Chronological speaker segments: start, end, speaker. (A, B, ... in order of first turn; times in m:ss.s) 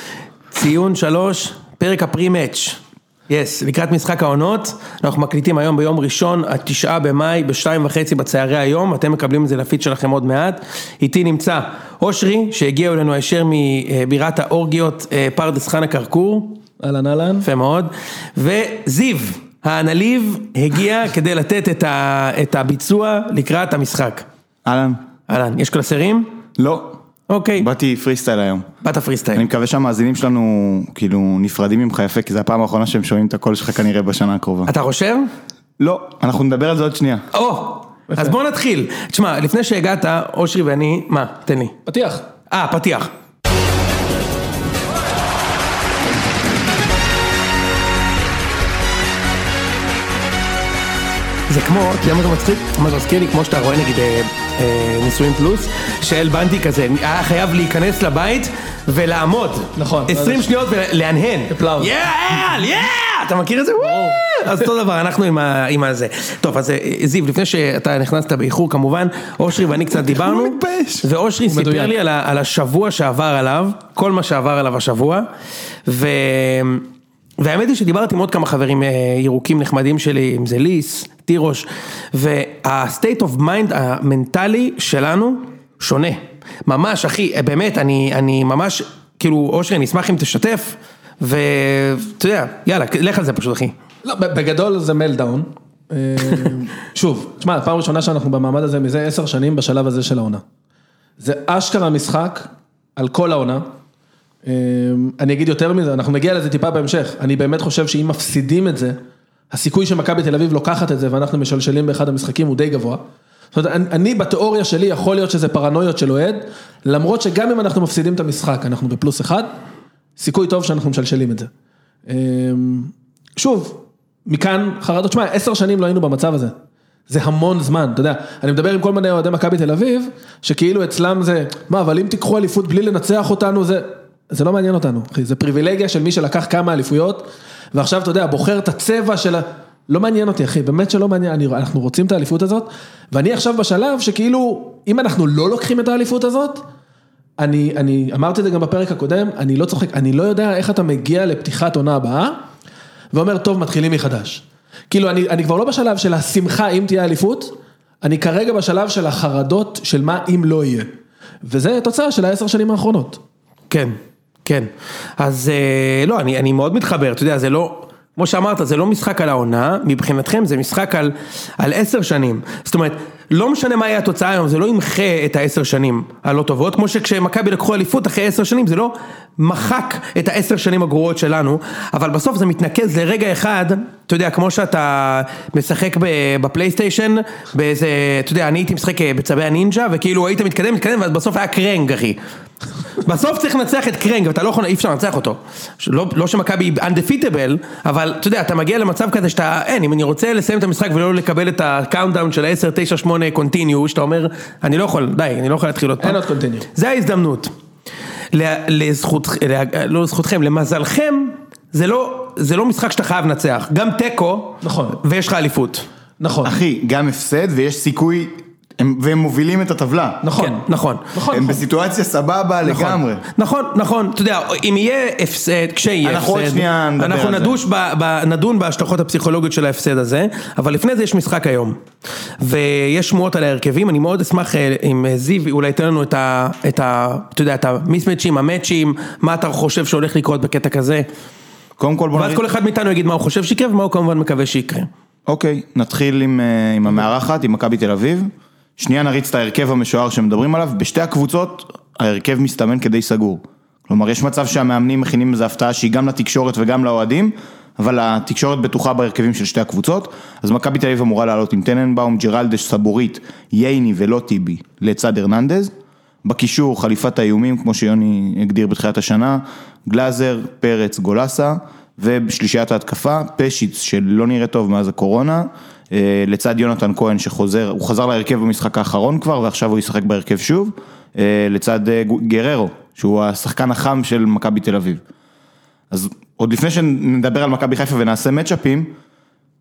0:00.5-0:16.6 A
0:16.8-0:17.4 B
0:17.4-0:24.2 A
0:24.6-0:25.0 C
0:25.3-0:26.3 A
0:26.6-0:27.0 C
0:27.3-0:27.7 A
0:27.6-0:28.7 C
0:28.8-0:29.4 A
0:29.3-0:34.7 C
0:34.6-0:35.3 A
0:35.8-0:37.2 C
0:37.3-0:41.7 A
0:41.8-0:42.2 B
0:42.5-0:43.1 A
0:51.5-1:15.2 A
0:59.8-1:00.5 B
1:01.5-1:01.9 B
1:03.8-1:04.2 B
1:11.4-1:11.9 B
1:15.8-1:16.9 A
1:17.4-1:33.7 A
1:34.0-1:40.4 B
1:41.2-1:43.6 B
1:44.4-1:49.0 B
1:49.5-1:59.5 B
2:00.2-2:01.5 B
2:02.1-2:06.5 B
2:07.1-2:26.6 B
2:27.4-2:32.4 B
2:33.1-2:43.2 B
2:43.7-3:12.2 A
3:13.0-3:26.2 A
3:26.0-3:26.7 B
3:26.7-3:27.5 A
3:28.3-3:35.8 A
3:34.6-3:35.0 B
3:36.2-3:36.6 B
3:36.4-3:40.2 C
3:40.2-3:41.6 B
3:40.4-3:41.1 A
3:41.3-3:43.2 C
3:42.7-3:51.8 A
3:46.0-3:47.6 C
3:52.4-4:01.1 A
4:01.8-4:02.4 C
4:02.1-4:04.9 A
4:05.3-4:25.7 C
4:26.2-4:45.0 C
4:45.9-4:48.9 C